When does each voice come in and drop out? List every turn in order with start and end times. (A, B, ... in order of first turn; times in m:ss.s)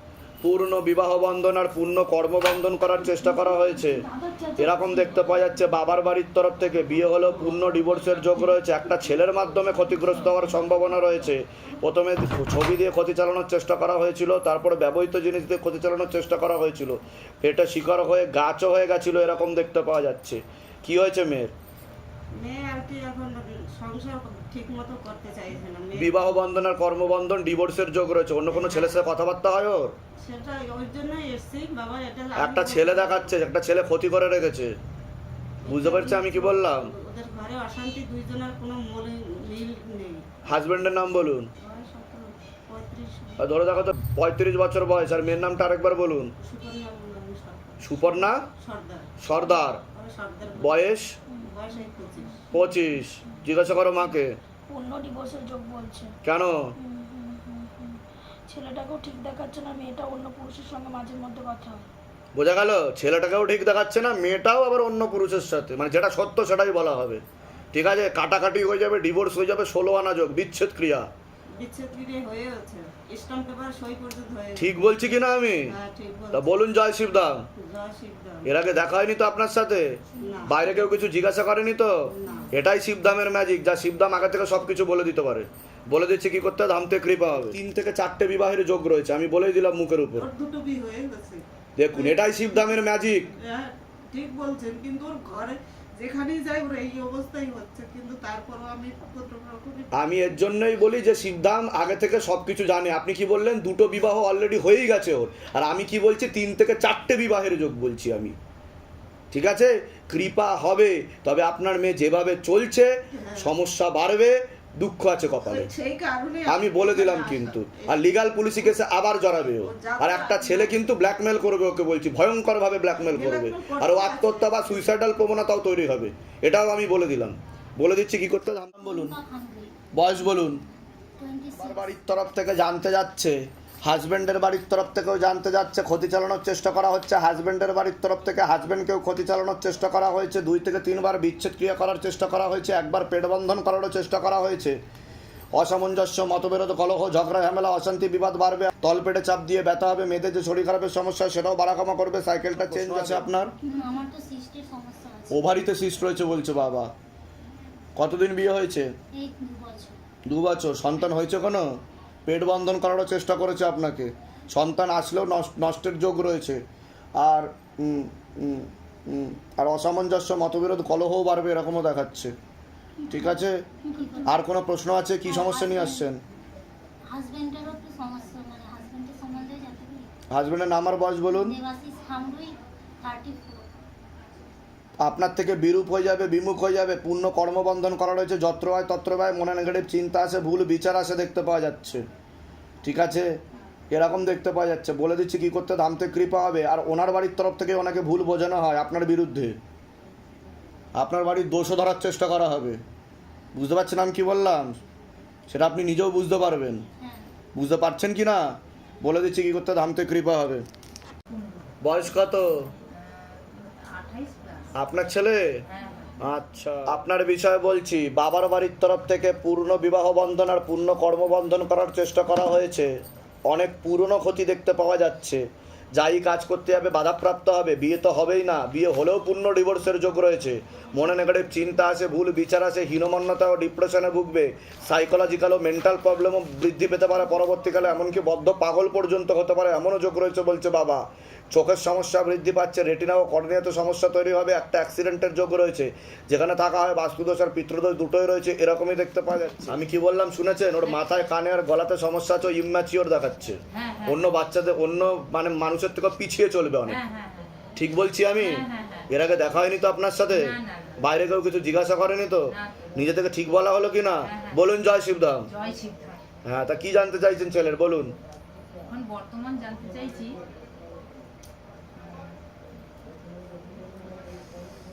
0:00.4-0:04.0 A
0:04.6-0:21.5 A
0:22.3-0:26.5 B
0:26.0-0:29.9 A
0:28.5-0:29.0 B
0:30.2-0:33.5 B
0:32.4-0:34.7 A
0:35.6-0:40.3 B
0:35.7-0:36.9 A
0:40.4-0:41.5 A
0:41.6-0:43.4 B
0:43.4-0:46.3 A
0:46.4-0:50.8 B
0:47.8-0:48.4 A
0:49.2-0:49.8 A
0:50.6-0:51.1 A
0:51.4-0:52.4 B
0:52.5-0:54.4 A
0:52.5-0:53.8 C
0:54.7-0:56.1 C
0:56.2-0:56.7 A
0:56.8-1:01.8 C
1:02.4-1:11.1 A
1:11.6-1:15.0 B
1:14.6-1:15.7 A
1:15.6-1:16.6 B
1:16.3-1:17.4 A
1:17.6-1:18.5 B
1:18.4-1:30.3 A
1:20.2-1:20.9 B
1:22.1-1:22.5 B
1:30.1-1:40.6 B
1:31.8-1:33.3 A
1:39.9-1:48.4 A
1:49.3-1:55.7 A
1:53.1-1:53.5 B
1:55.3-1:58.8 B
1:56.4-2:09.1 A
1:59.6-2:00.9 B
2:03.0-2:05.0 B
2:08.8-2:09.7 D
2:09.9-2:10.6 A
2:11.2-2:12.0 D
2:11.6-2:24.8 A
2:25.5-2:33.5 A
2:33.6-2:36.0 D
2:35.3-2:36.9 A
2:38.0-2:38.9 A
2:39.1-2:40.0 D
2:40.3-2:41.6 A
2:42.3-2:46.6 A
2:47.2-2:52.3 A
2:53.0-2:54.5 D
2:53.1-2:53.6 A
2:54.2-2:56.2 A
2:55.2-2:56.1 D
2:57.1-3:00.1 D
3:00.3-3:01.6 A
3:01.3-3:03.6 D
3:05.0-3:12.0 A
3:12.8-3:13.4 A
3:13.9-3:19.6 A
3:21.0-3:22.8 A
3:23.5-3:24.8 A
3:25.5-3:26.8 A
3:27.0-3:27.2 D
3:27.5-3:30.6 A
3:31.3-3:34.7 E
3:31.8-3:32.7 A
3:34.8-3:35.6 A
3:35.6-3:36.8 E
3:36.2-3:42.9 A
3:43.5-4:17.0 A
4:13.7-4:14.3 E
4:16.8-4:17.7 E
4:17.8-4:25.5 A
4:18.3-4:19.1 E
4:20.2-4:21.0 E
4:22.5-4:22.8 E
4:24.2-4:24.6 E
4:25.5-4:26.2 E
4:26.4-4:28.2 A
4:28.9-4:30.4 E
4:32.0-4:32.4 E
4:33.6-4:34.1 E